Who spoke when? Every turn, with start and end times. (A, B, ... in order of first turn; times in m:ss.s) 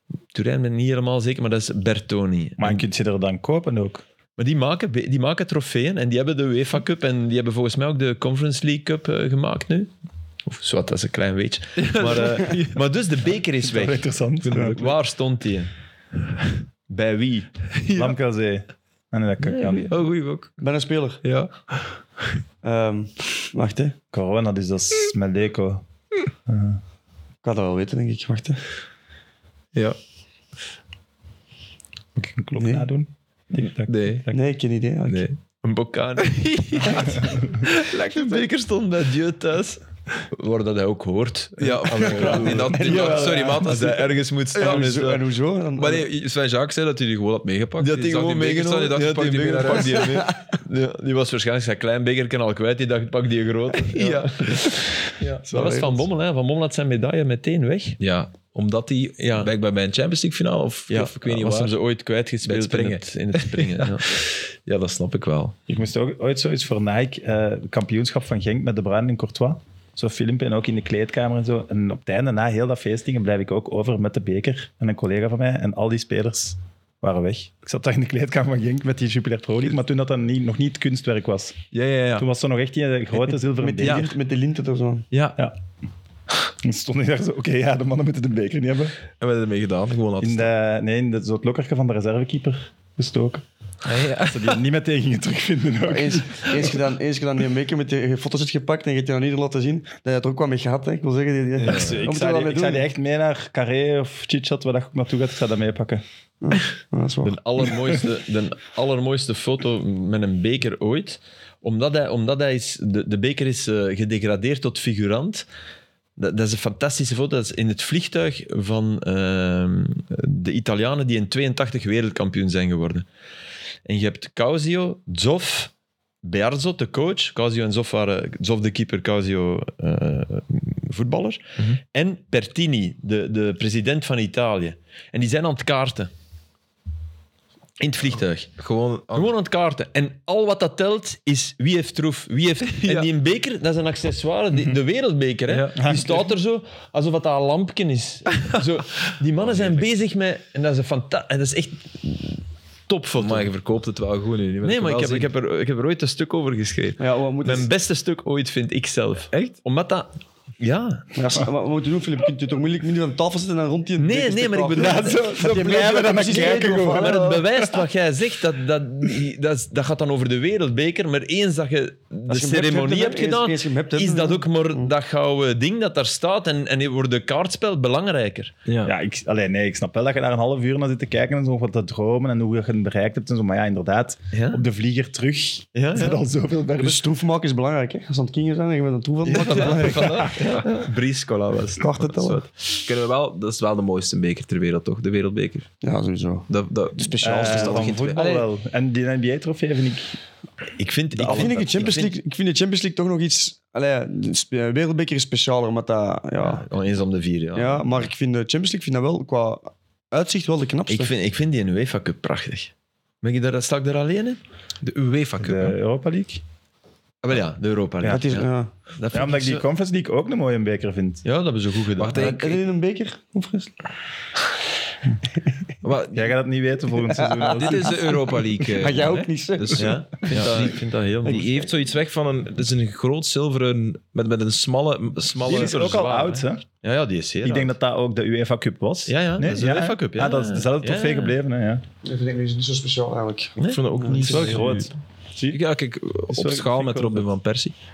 0:00.3-0:02.8 A
0:02.6-0:04.0 B
0:04.4-0:09.9 A
0:10.5-0:15.7 A
0:11.8-0:12.8 C
0:13.6-0:14.8 B
0:14.4-0:14.9 C
0:16.9-0:17.5 A
0:17.8-0:18.2 C
0:18.0-0:19.9 B
0:19.4-0:20.6 C
0:20.6-0:21.2 D
0:21.2-0:22.0 C
0:22.6-0:24.0 D
0:24.1-0:25.8 B
0:26.5-0:26.8 B
0:27.4-0:28.6 D
0:32.2-0:34.4 B
0:32.6-0:32.9 D
0:33.9-0:34.3 C
0:34.3-0:35.2 D
0:35.1-0:35.4 C
0:35.6-0:45.2 A
0:36.2-0:38.4 C
0:41.6-0:44.0 C
0:42.0-0:43.9 D
0:44.6-0:46.1 D
0:45.8-0:50.2 C
0:47.8-0:58.0 A
0:53.8-0:55.4 C
0:55.5-0:56.0 D
0:58.0-1:01.7 C
0:59.2-0:59.5 A
1:00.9-1:04.2 A
1:02.4-1:05.6 C
1:05.7-1:21.6 B
1:21.7-1:22.3 C
1:22.2-1:24.1 B
1:23.5-1:25.1 D
1:25.1-1:25.4 C
1:26.6-1:29.0 B
1:29.2-1:30.5 C
1:30.2-1:33.4 B
1:33.8-1:34.6 C
1:34.2-1:36.8 B
1:35.9-1:42.9 D
1:41.6-1:42.0 A
1:41.7-1:46.0 B
1:46.4-1:47.4 D
1:47.3-1:55.4 A
1:56.2-2:03.0 A
2:03.9-2:05.7 A
2:06.2-2:16.1 A
2:17.8-2:18.5 A
2:18.6-2:19.3 C
2:19.1-2:33.5 A
2:22.8-2:23.1 C
2:25.5-2:25.8 C
2:25.8-2:26.2 B
2:33.2-2:35.3 C
2:34.6-2:41.1 A
2:37.0-2:37.7 D
2:41.2-2:47.4 D
2:44.0-2:45.2 A
2:44.8-2:47.8 B
2:46.4-2:58.5 A
2:52.3-2:54.9 D
2:58.7-2:58.9 C
2:58.8-3:07.0 B
3:04.3-3:04.6 A
3:05.8-3:06.2 A
3:06.8-3:10.4 D
3:09.3-3:12.1 A
3:11.8-3:12.5 D
3:12.2-3:15.7 C
3:15.8-3:18.5 D
3:16.5-3:18.3 C
3:17.2-3:20.2 B
3:20.8-3:22.1 A
3:21.2-3:21.8 B
3:21.2-3:26.7 D
3:26.4-3:28.1 A
3:27.6-3:31.1 D
3:30.9-3:34.4 A
3:34.8-3:35.8 C
3:35.4-3:36.4 B
3:37.2-3:39.6 A
3:38.1-3:38.7 D
3:39.1-3:41.2 B
3:41.2-3:42.4 A
3:42.0-3:42.6 C
3:42.2-3:43.7 D
3:45.8-3:46.3 C
3:46.1-3:48.2 B
3:47.1-3:47.9 D
3:47.5-3:55.8 C
3:48.6-3:50.7 D
3:49.8-3:51.5 A
3:51.2-3:51.7 D
3:55.4-3:57.8 A
3:55.4-3:56.6 B
3:57.4-4:01.8 B
3:59.1-4:01.4 A
4:02.0-4:04.2 D
4:03.6-4:04.8 A
4:03.7-4:04.9 C
4:04.1-4:05.6 B
4:05.5-4:07.7 C
4:06.3-4:07.3 B